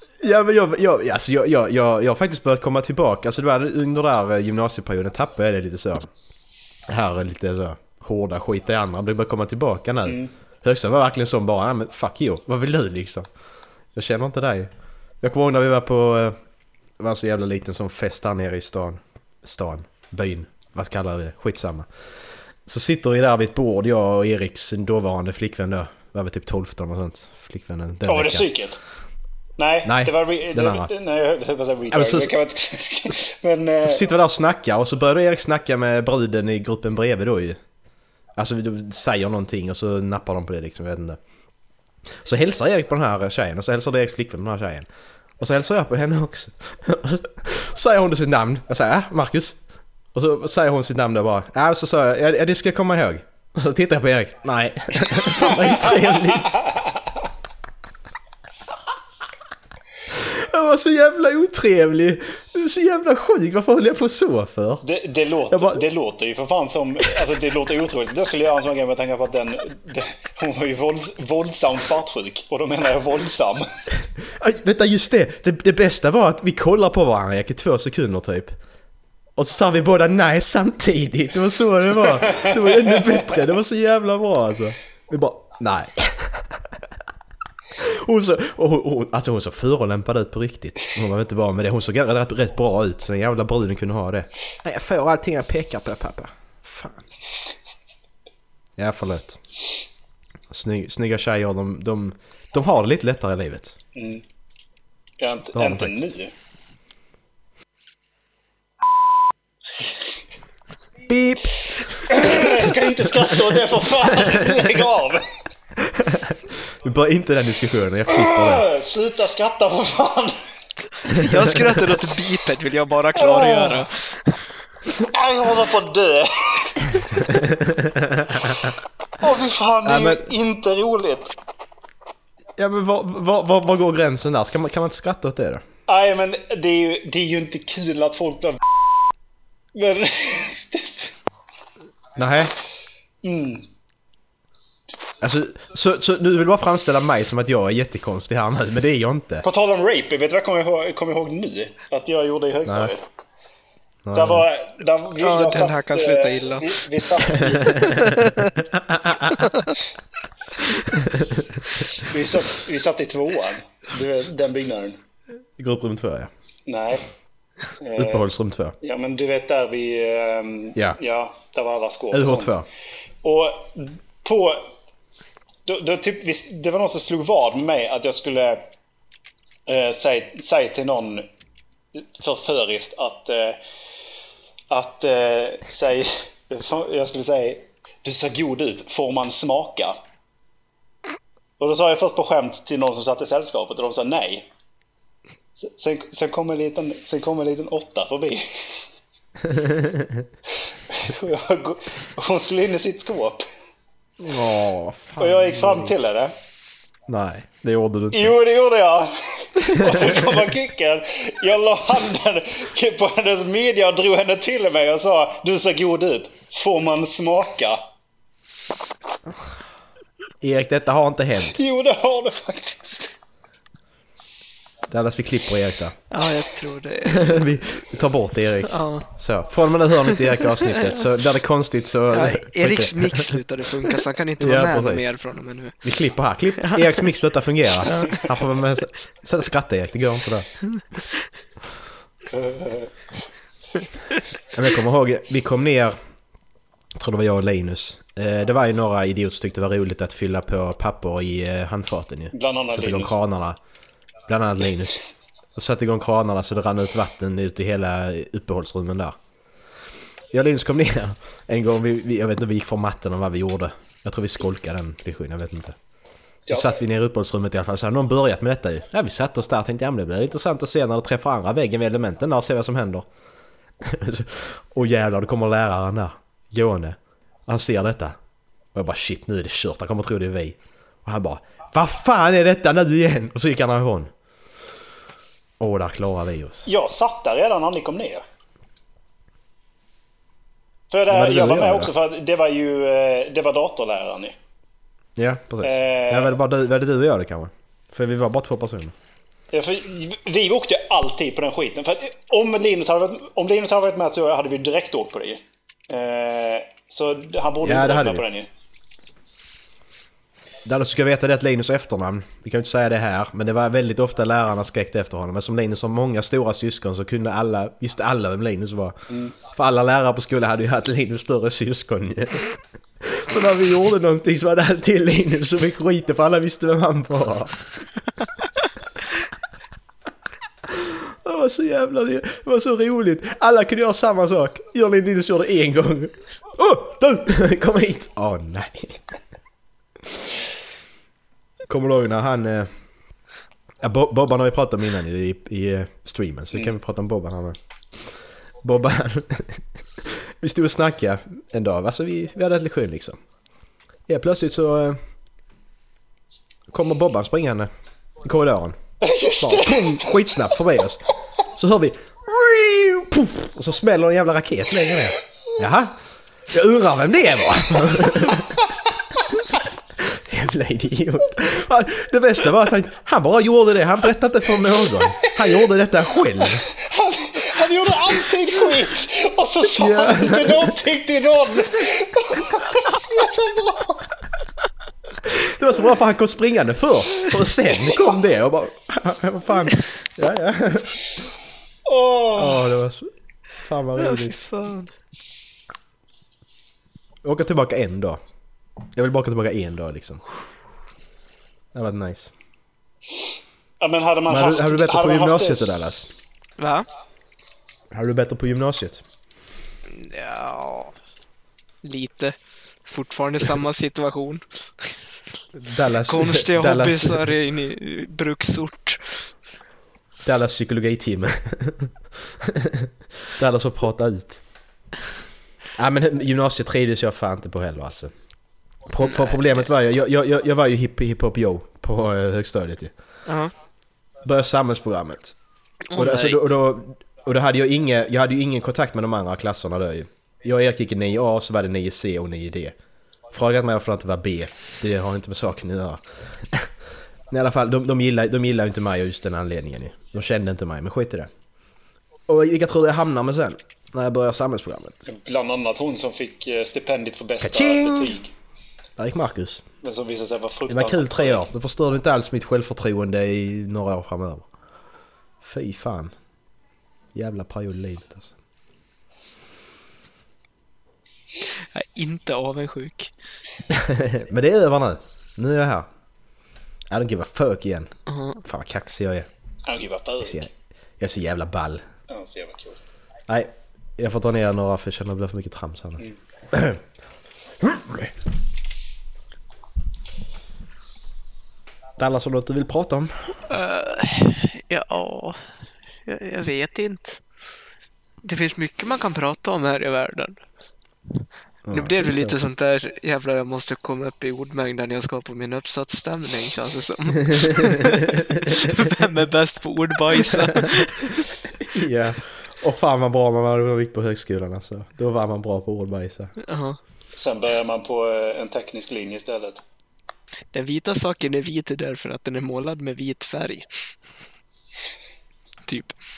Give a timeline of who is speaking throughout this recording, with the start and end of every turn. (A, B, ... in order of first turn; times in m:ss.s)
0:00.2-0:06.1 A
0:06.9-0:13.3 A
0:10.0-0:10.3 B
0:13.9-0:14.7 A
0:15.2-0:16.4 A
0:17.0-0:21.9 A
0:22.6-0:28.5 A
0:28.0-0:28.8 B
0:29.6-0:34.0 B
0:29.8-0:30.9 A
0:31.9-0:32.3 A
0:33.8-0:37.6 A
0:38.4-0:41.2 A
0:42.1-0:44.9 A
0:45.4-0:49.6 A
0:50.1-0:56.6 A
0:55.4-0:57.0 B
1:00.1-1:04.8 A
1:04.8-1:13.6 B
1:05.5-1:05.8 A
1:14.2-1:18.6 A
1:19.4-1:26.8 A
1:27.7-1:37.0 A
1:38.8-1:39.4 A
1:40.5-1:43.8 A
1:43.9-1:44.2 B
1:45.2-1:46.3 B
1:45.5-1:46.0 A
1:51.1-1:54.6 A
1:52.1-1:55.2 B
1:55.8-1:58.7 A
1:58.1-2:00.3 B
2:01.1-2:04.4 C
2:03.2-2:03.8 B
2:05.0-2:07.0 B
2:07.3-2:08.7 A
2:09.2-2:11.3 B
2:09.8-2:10.3 A
2:12.6-2:15.6 A
2:15.9-2:18.6 B
2:19.7-2:21.0 B
2:22.2-2:22.5 A
2:23.2-2:23.7 B
2:25.2-2:29.4 A
2:29.4-2:33.0 B
2:32.6-2:32.9 A
2:34.0-2:34.4 A
2:34.1-2:37.8 B
2:35.2-2:36.8 C
2:37.4-2:39.4 A
2:37.4-2:38.5 C
2:39.4-2:39.7 C
2:41.0-2:41.6 A
2:42.0-2:45.0 B
2:45.6-2:46.3 A
2:46.7-2:47.0 B
2:47.8-2:48.2 B
2:48.0-2:48.7 A
2:48.8-2:52.6 B
2:52.1-2:52.7 A
2:53.2-2:54.7 B
2:55.6-2:58.6 B
2:59.7-3:01.3 B
3:02.0-3:03.6 B
3:04.7-3:10.0 B
3:11.6-3:14.5 B
3:15.6-3:18.4 B
3:19.4-3:20.2 A
3:20.9-3:23.4 B
3:24.2-3:25.9 A
3:25.2-3:26.3 B
3:27.1-3:28.4 A
3:28.1-3:37.8 B
3:29.6-3:30.4 A
3:40.4-3:41.6 A
3:41.5-3:43.1 B
3:44.9-3:46.0 A
3:46.1-3:47.5 C
3:47.0-3:53.3 A
3:48.7-3:49.1 C
3:52.1-3:55.9 C
3:54.4-3:55.1 A
3:55.8-4:00.5 A
3:56.6-3:57.0 C
3:57.8-3:58.2 C
4:02.3-4:02.9 B
4:04.5-4:06.0 A
4:07.0-4:13.6 A
4:12.3-4:13.1 B
4:14.3-4:15.0 A
4:15.5-4:19.2 A
4:20.3-4:25.8 A
4:26.5-4:26.7 B
4:26.5-4:33.1 A
4:33.8-4:38.2 A
4:38.7-4:44.1 A
4:45.6-4:46.6 A
4:46.6-4:48.2 B
4:50.9-4:54.3 B
4:51.1-4:51.9 A
4:55.2-4:58.9 A
4:55.6-4:56.3 B
4:59.5-5:08.5 B
5:07.6-5:08.2 A
5:10.6-5:27.6 A
5:19.1-5:19.3 B
5:30.6-5:39.0 A
5:41.7-5:42.7 A
5:43.8-5:47.6 A
5:48.6-5:53.2 A
5:54.1-5:55.0 A
5:56.7-5:57.7 A
5:58.2-5:58.8 A
5:59.0-6:00.2 B
5:59.4-6:01.0 A
6:01.5-6:06.0 A
6:06.5-6:08.7 A
6:10.0-6:16.6 A
6:16.7-6:24.0 B
6:19.7-6:20.7 A
6:25.2-6:31.1 A
6:31.8-6:32.7 B
6:32.4-6:34.4 A
6:34.0-6:34.9 C
6:37.2-6:38.2 A
6:38.9-6:40.2 A
6:41.7-6:42.3 A
6:43.8-6:46.0 B
6:44.3-6:46.1 A
6:46.6-6:46.9 C
6:47.9-6:49.0 A
6:49.9-6:50.9 C
6:51.8-6:54.9 C
6:55.5-6:57.3 A
6:56.1-6:59.3 C
7:00.2-7:04.4 A
7:05.8-7:08.1 A
7:08.9-7:12.9 A
7:09.0-7:09.5 C
7:13.2-7:13.5 C
7:14.2-7:15.4 A
7:15.9-7:16.4 C
7:15.9-7:22.8 A
7:23.3-7:26.7 A
7:27.3-7:31.3 A
7:32.3-7:35.0 A
7:35.0-7:38.3 B
7:37.4-7:38.2 A
7:39.0-7:39.6 A
7:39.8-7:41.4 B
7:40.7-7:44.5 A
7:45.4-7:46.1 A
7:47.1-7:48.3 A
7:51.5-7:53.1 C
7:53.7-7:55.9 A
7:56.9-7:57.9 A
7:58.1-7:58.4 C
7:58.4-7:59.3 A
7:59.7-8:00.4 B
8:00.2-8:01.8 A
8:02.1-8:02.8 B
8:03.3-8:06.8 A
8:07.6-8:08.1 A
8:12.0-8:13.4 A
8:13.5-8:15.4 C
8:16.0-8:17.2 C
8:18.2-8:20.4 C
8:21.6-8:22.4 A
8:21.7-8:31.3 C
8:27.9-8:28.2 A
8:30.3-8:30.7 A
8:31.6-8:36.3 A
8:36.4-8:36.8 C
8:37.1-8:39.6 B
8:40.5-8:43.9 C
8:45.7-8:45.9 C